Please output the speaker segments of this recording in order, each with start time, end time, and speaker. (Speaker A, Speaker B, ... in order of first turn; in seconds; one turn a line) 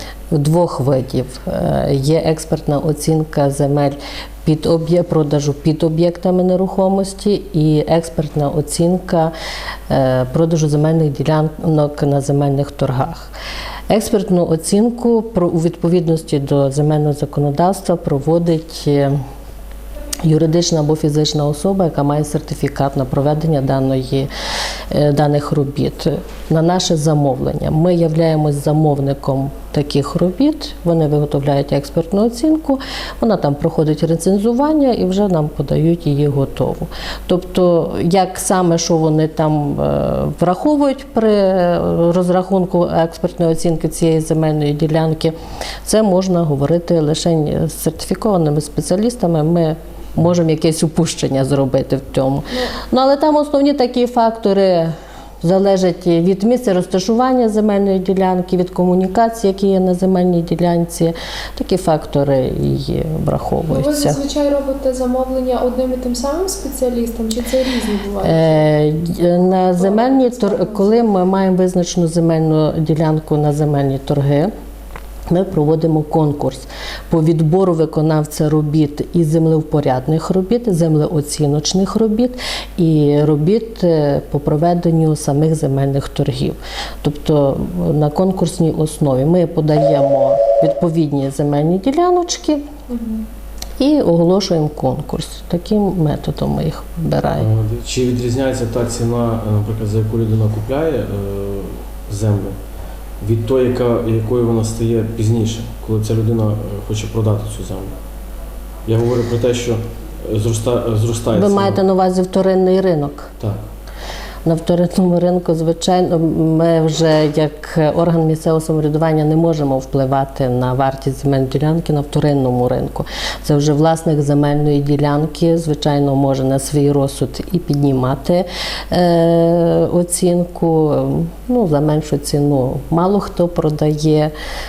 Speaker A: 0.3-9.3
Speaker A: 9.9-13.3
Speaker A: 13.9-19.1
Speaker A: 20.2-24.3
Speaker A: 24.9-45.3
Speaker A: 45.8-64.2
Speaker B: 63.7-68.6
Speaker A: 68.2-74.5
Speaker B: 69.8-71.0
Speaker A: 75.3-92.6
Speaker B: 92.9-93.2
Speaker A: 93.8-97.5
Speaker C: 97.3-102.5
Speaker C: 103.2-107.9
Speaker C: 108.8-111.8
Speaker A: 111.3-113.3
Speaker A: 114.4-134.3